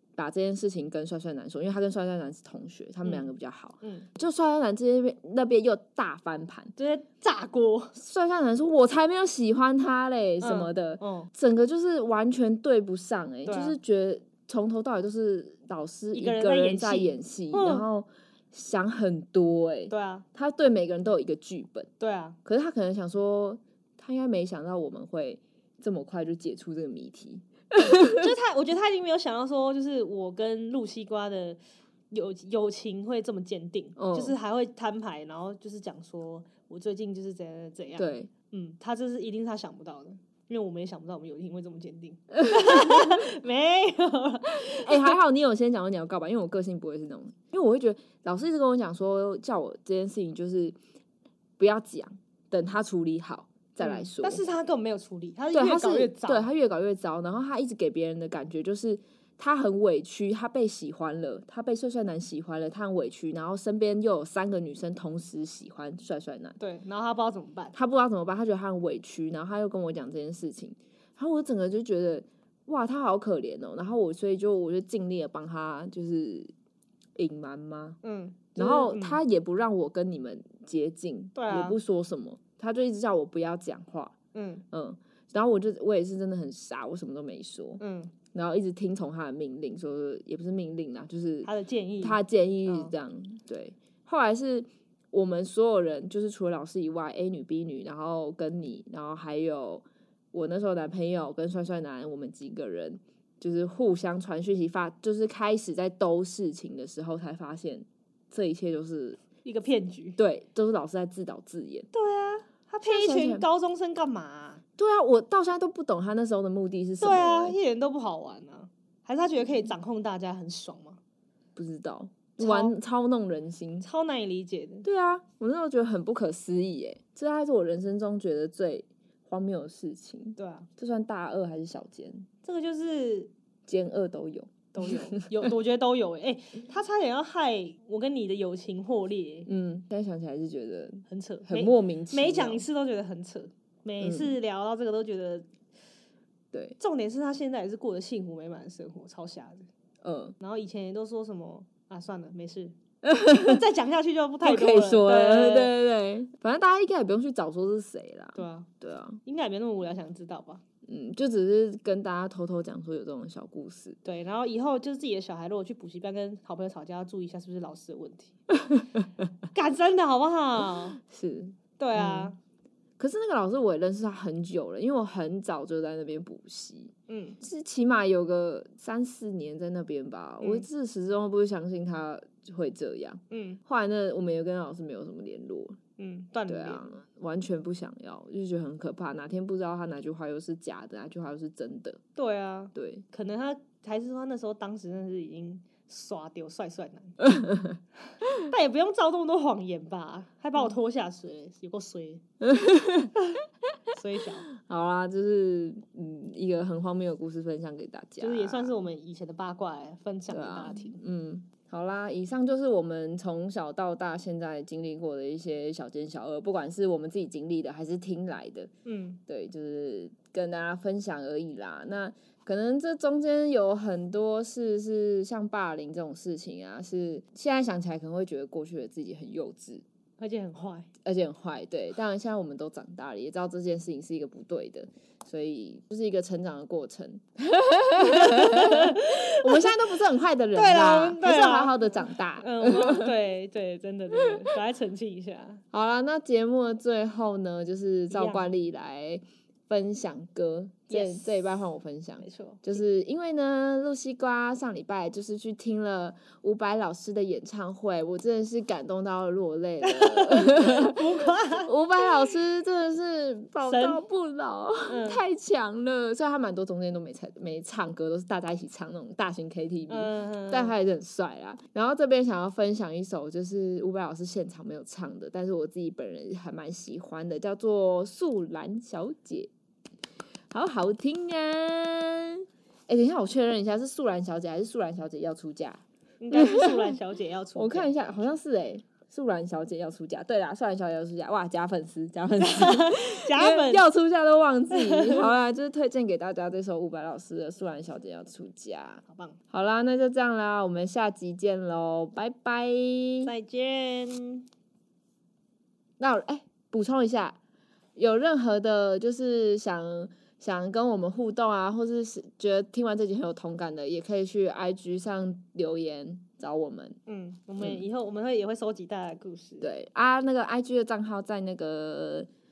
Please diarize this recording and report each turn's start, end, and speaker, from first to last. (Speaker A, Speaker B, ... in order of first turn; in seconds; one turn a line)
Speaker A: 0.2-6.7
Speaker B: 3.8-4.1
Speaker B: 6.8-8.0
Speaker A: 8.0-21.9
Speaker B: 10.4-11.3
Speaker B: 13.5-13.8
Speaker B: 16.1-17.9
Speaker B: 19.9-20.3
Speaker B: 22.0-22.4
Speaker A: 22.4-28.3
Speaker B: 27.9-31.6
Speaker B: 32.1-45.2
Speaker A: 34.0-34.4
Speaker A: 38.0-38.3
Speaker A: 42.4-43.2
Speaker A: 44.7-50.8
Speaker A: 51.6-54.4
Speaker B: 53.8-56.5
Speaker A: 55.5-66.6
Speaker B: 66.6-67.8
Speaker A: 67.7-76.5
Speaker A: 77.2-78.0
Speaker B: 78.0-79.2
Speaker A: 78.5-84.2
Speaker B: 81.3-81.8
Speaker B: 84.3-84.7
Speaker A: 84.7-91.5
Speaker B: 87.8-88.2
Speaker B: 91.5-92.9
Speaker A: 92.0-109.2
Speaker B: 109.4-110.2
Speaker A: 110.2-111.9
Speaker B: 111.9-114.6
Speaker A: 112.8-113.5
Speaker A: 114.8-117.6
Speaker B: 117.0-121.0
Speaker A: 121.6-123.9
Speaker B: 122.4-122.8
Speaker B: 123.8-124.9
Speaker A: 124.8-132.3
Speaker B: 130.4-130.7
Speaker B: 132.4-133.3
Speaker A: 133.7-135.5
Speaker B: 134.7-139.5
Speaker A: 139.5-142.6
Speaker B: 141.1-145.5
Speaker A: 144.0-144.3
Speaker A: 146.5-146.8
Speaker B: 146.8-149.7
Speaker A: 150.0-150.3
Speaker B: 150.4-152.8
Speaker A: 153.0-153.6
Speaker B: 153.3-155.7
Speaker A: 154.4-159.2
Speaker B: 158.4-158.7
Speaker B: 159.2-160.6
Speaker A: 160.8-164.0
Speaker B: 164.0-168.4
Speaker A: 168.6-169.2
Speaker B: 169.5-171.0
Speaker A: 171.0-172.3
Speaker B: 171.8-172.4
Speaker A: 173.0-185.8
Speaker B: 177.1-177.4
Speaker B: 180.4-180.7
Speaker B: 183.3-183.6
Speaker B: 186.0-187.0
Speaker A: 186.5-192.0
Speaker B: 192.2-197.3
Speaker A: 192.8-193.1
Speaker A: 197.2-197.8
Speaker B: 198.3-202.2
Speaker A: 202.4-203.1
Speaker B: 203.9-204.5
Speaker A: 204.6-208.8
Speaker B: 208.2-211.0
Speaker A: 210.3-218.7
Speaker B: 218.9-219.2
Speaker A: 219.3-229.8
Speaker B: 230.2-230.9
Speaker A: 231.1-243.1
Speaker B: 238.0-239.8
Speaker B: 240.5-245.6
Speaker A: 245.7-279.5
Speaker B: 248.1-248.5
Speaker B: 250.9-251.4
Speaker B: 252.2-252.8
Speaker B: 259.8-261.7
Speaker B: 263.6-264.0
Speaker B: 264.9-265.2
Speaker B: 269.9-270.8
Speaker A: 280.5-285.8
Speaker B: 286.2-287.9
Speaker A: 286.3-287.0
Speaker A: 287.6-303.3
Speaker B: 292.4-293.9
Speaker B: 294.7-295.3
Speaker B: 299.1-299.4
Speaker B: 303.2-304.5
Speaker A: 306.0-307.4
Speaker A: 308.0-317.0
Speaker B: 317.1-319.7
Speaker A: 319.6-322.3